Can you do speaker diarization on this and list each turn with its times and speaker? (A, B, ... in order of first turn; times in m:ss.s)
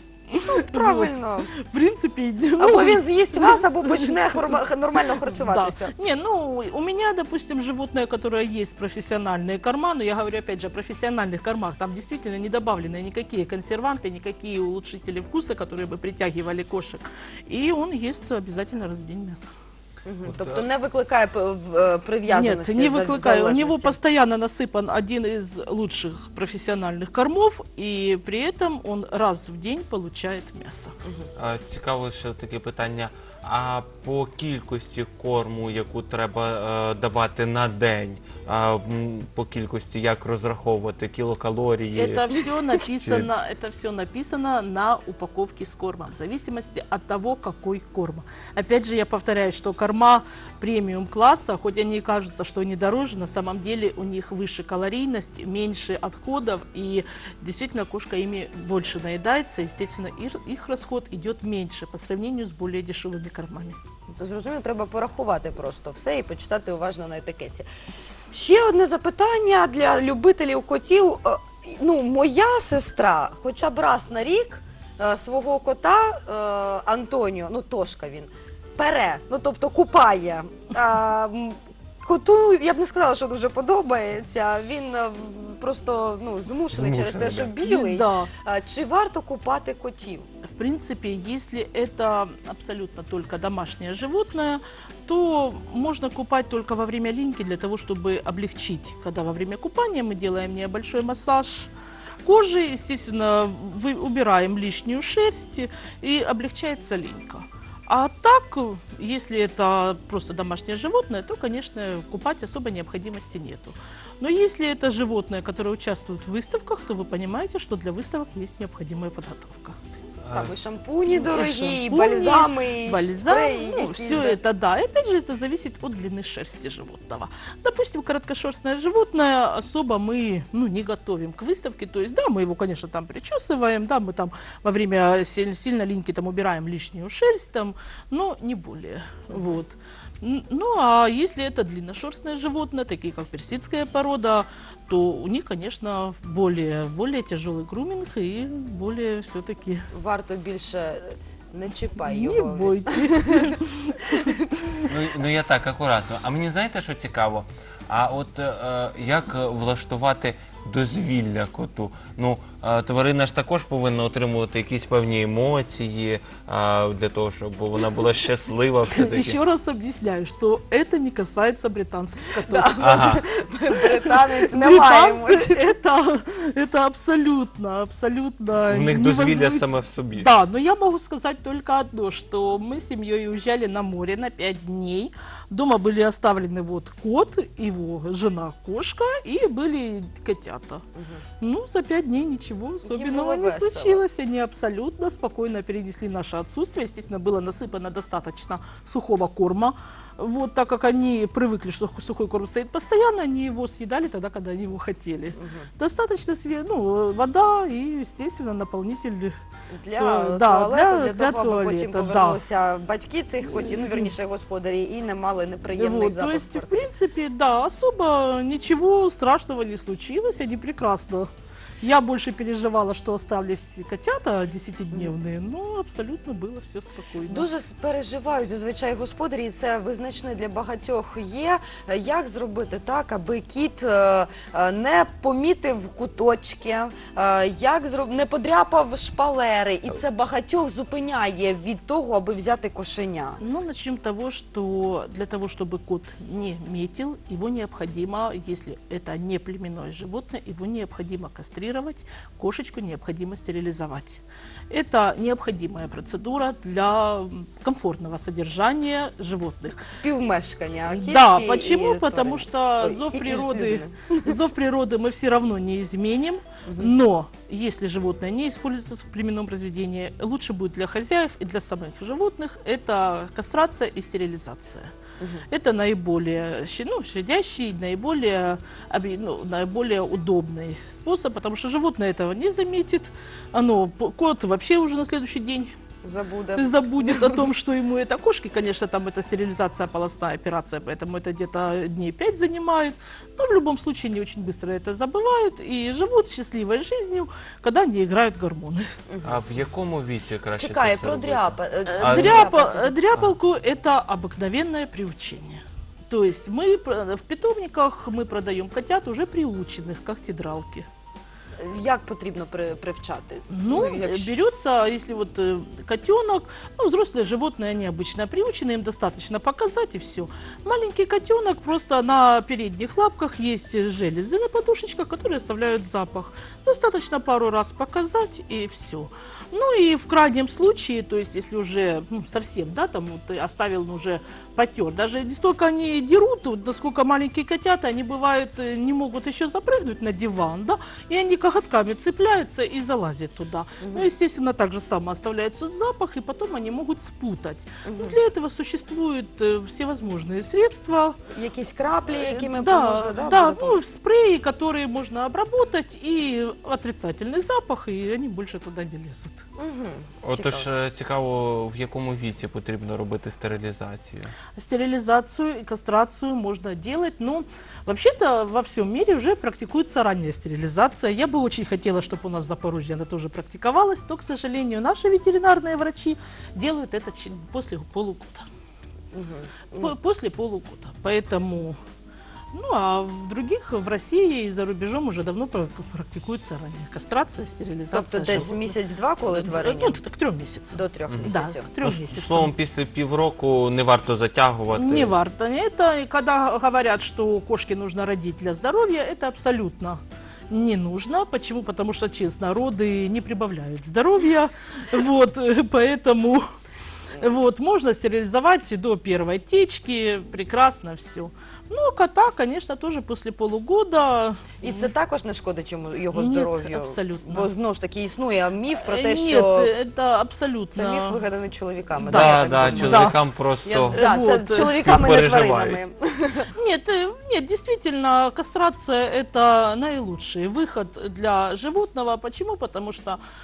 0:00.3-0:04.6 A
0:00.4-0:01.5 B
0:02.6-0:05.9 B
0:05.2-0:19.5 A
0:20.0-0:24.0 B
0:20.2-0:20.6 C
0:22.3-0:30.9 A
0:31.4-0:43.3 C
0:41.9-1:03.8 A
1:04.2-1:07.7 B
1:08.3-1:30.2 B
1:26.7-1:27.5 C
1:27.6-1:28.3 A
1:30.5-1:41.7 A
1:42.2-1:59.8 A
2:00.2-2:00.5 C
2:00.3-2:04.4 B
2:01.1-2:29.8 A
2:19.3-2:19.6 B
2:29.9-2:33.6 B
2:32.0-2:34.3 A
2:34.1-2:34.6 B
2:34.9-2:49.4 C
2:48.9-2:53.2 A
2:52.4-2:55.6 B
2:52.8-2:53.2 C
2:53.8-3:10.8 A
2:58.7-3:00.3 C
3:11.4-3:29.4 A
3:12.8-3:14.0 B
3:25.4-3:25.7 B
3:29.7-3:36.9 B
3:30.0-3:32.4 A
3:33.5-3:34.1 A
3:35.7-3:41.3 A
3:41.8-3:47.5 A
3:47.3-4:03.4 B
4:03.4-4:19.9 A
4:19.8-4:24.5 B
4:20.9-4:34.9 A
4:26.6-4:26.9 B
4:35.2-4:35.4 B
4:35.5-4:45.7 A
4:46.0-4:47.5 B
4:46.6-4:58.8 A
4:59.1-4:59.4 B
4:59.2-5:02.5 C
5:00.6-5:02.9 B
5:01.8-5:10.9 A
5:11.6-5:14.3 B
5:13.5-5:51.2 A
5:43.8-5:44.1 B
5:47.8-5:48.2 B
5:51.3-5:53.8 B
5:52.1-5:59.4 A
5:59.6-6:00.7 B
6:00.2-6:04.3 C
6:04.6-6:18.4 A
6:19.1-6:19.9 B
6:19.8-6:21.8 A
6:22.5-6:28.8 A
6:27.9-6:30.0 B
6:29.3-6:32.5 A
6:30.7-6:31.7 B
6:31.1-6:35.2 C
6:34.7-6:46.5 A
6:47.2-6:54.9 A
6:54.6-6:59.7 B
6:56.1-6:57.5 A
6:58.7-7:01.2 A
7:00.7-7:03.1 B
7:02.0-7:03.2 A
7:02.0-7:05.8 C
7:03.6-7:06.5 B
7:03.9-7:04.8 A
7:06.6-7:13.2 A